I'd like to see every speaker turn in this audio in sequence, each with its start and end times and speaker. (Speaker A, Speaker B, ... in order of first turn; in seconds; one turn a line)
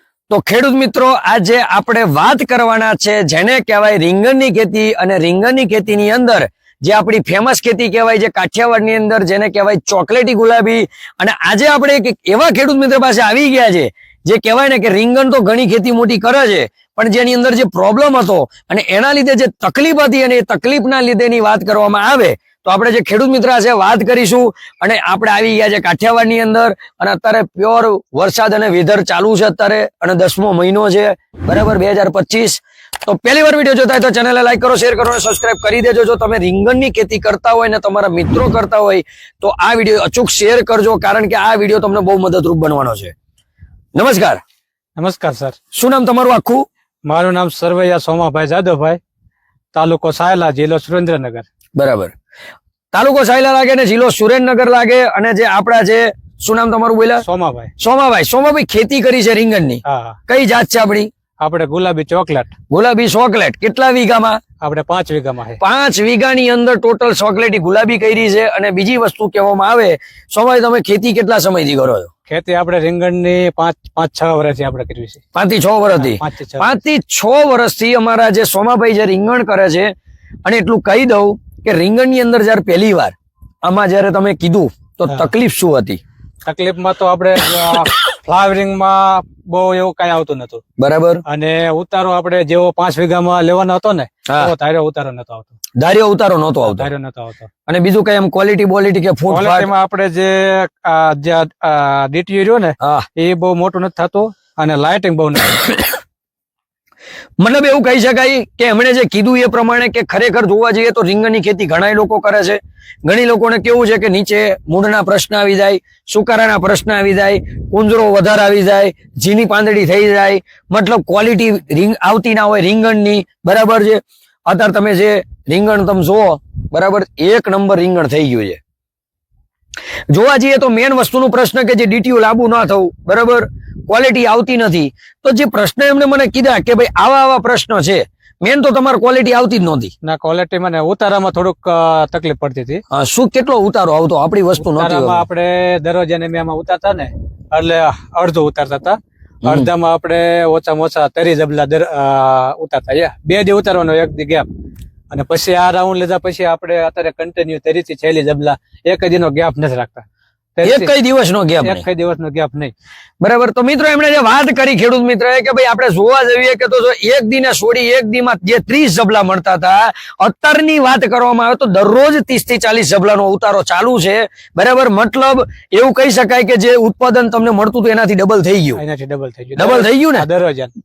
Speaker A: 0.3-43.1
Speaker A: 43.9-44.4
Speaker B: 45.0-45.5
Speaker A: 45.7-46.6
Speaker B: 47.0-49.0
Speaker B: 49.7-51.4
Speaker A: 51.8-52.1
Speaker A: 52.9-57.2
Speaker B: 57.2-57.7
Speaker A: 57.8-61.1
Speaker B: 59.8-60.2
Speaker B: 61.4-62.5
Speaker A: 62.7-64.4
Speaker B: 64.6-65.6
Speaker A: 65.6-72.1
Speaker B: 72.3-75.2
Speaker A: 75.3-79.9
Speaker B: 75.9-76.8
Speaker A: 80.4-86.0
Speaker B: 86.4-90.6
Speaker A: 90.8-91.2
Speaker B: 91.2-95.5
Speaker A: 94.3-94.5
Speaker A: 95.8-96.9
Speaker B: 96.7-97.5
Speaker A: 97.7-99.7
Speaker B: 99.3-105.8
Speaker A: 102.8-103.0
Speaker A: 107.4-128.6
Speaker A: 130.1-139.9
Speaker B: 140.0-142.8
Speaker A: 142.9-145.2
Speaker B: 144.6-154.5
Speaker A: 149.4-149.7
Speaker B: 155.1-160.0
Speaker B: 160.6-160.9
Speaker A: 160.6-161.8
Speaker B: 161.6-162.7
Speaker A: 163.2-178.8
Speaker B: 178.8-180.7
Speaker A: 179.6-180.3